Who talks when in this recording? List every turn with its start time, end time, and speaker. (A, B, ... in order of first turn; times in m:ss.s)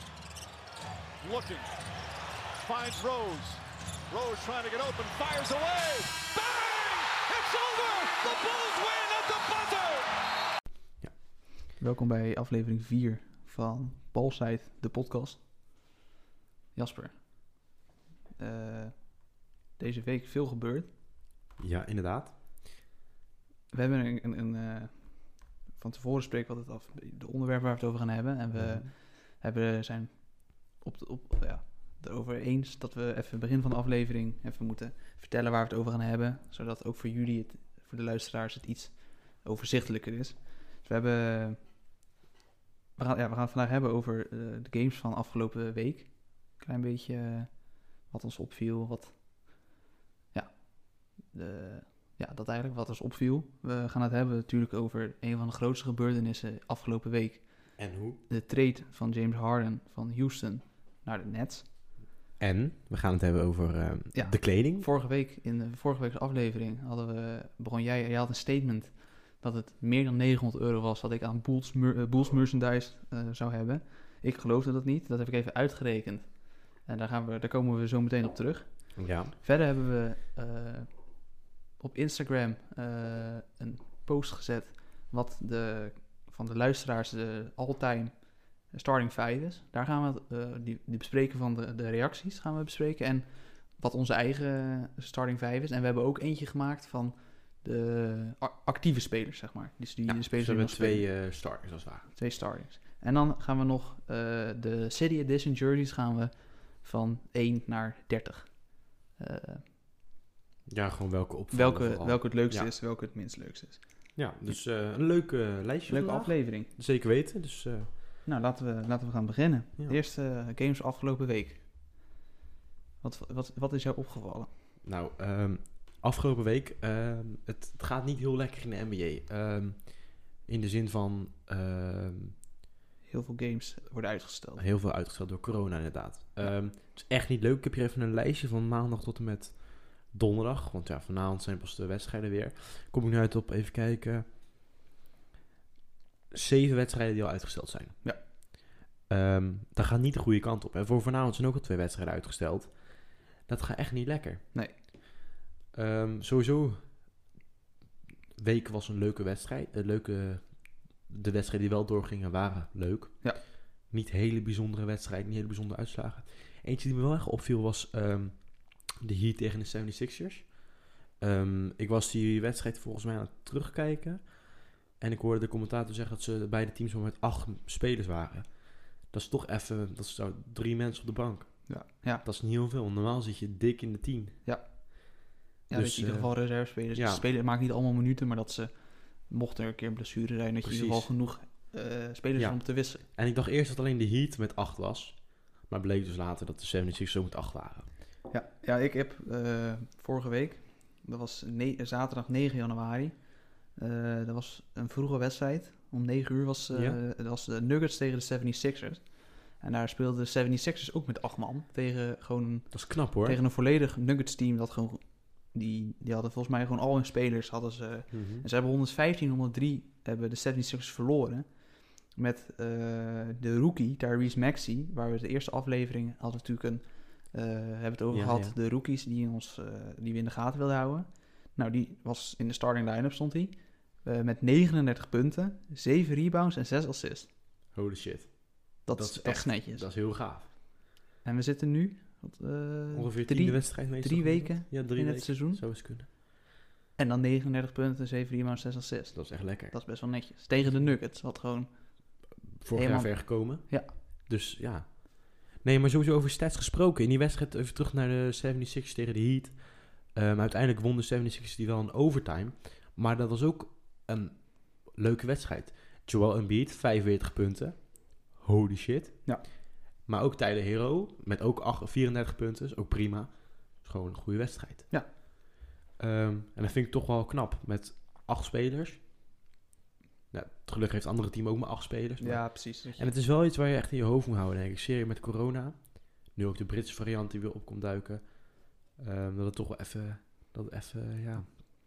0:01.2-0:01.7 A
0:02.6-0:10.1 A
0:11.8-0:15.4 B
0:16.8-0:17.7 B
0:18.4-0:20.9 B
0:21.6-0:22.4 C
0:23.7-0:41.7 B
0:28.5-0:28.9 C
0:43.0-0:49.7 B
0:50.3-1:01.7 B
0:57.8-0:58.2 C
1:02.4-1:04.9 C
1:04.1-1:21.1 B
1:19.0-1:19.3 C
1:21.8-1:41.1 B
1:40.0-1:42.1 C
1:42.1-1:49.6 B
1:50.7-1:52.7 C
1:51.5-1:54.2 B
1:54.2-1:57.9 C
1:55.9-1:56.7 B
1:58.2-2:02.0 B
2:03.0-2:04.5 B
2:04.8-2:12.4 C
2:13.1-2:14.6 B
2:14.6-2:24.3 C
2:26.3-2:28.3 C
2:29.1-2:34.4 C
2:35.7-2:37.0 C
2:38.4-3:04.4 C
3:01.7-3:02.2 B
3:04.4-3:13.0 B
3:05.7-3:07.2 C
3:10.6-3:11.2 C
3:12.4-3:17.9 C
3:18.3-3:57.3 B
3:26.7-3:27.0 C
3:32.7-3:33.4 C
3:38.1-3:38.5 C
3:48.1-3:48.6 C
3:57.7-4:00.5 C
3:58.9-3:59.9 B
4:01.2-4:06.2 B
4:02.9-4:06.1 C
4:07.0-4:13.9 B
4:09.1-4:09.9 C
4:10.6-4:10.9 C
4:12.6-4:35.3 C
4:36.0-4:39.0 C
4:40.3-4:51.6 C
4:42.2-4:43.1 B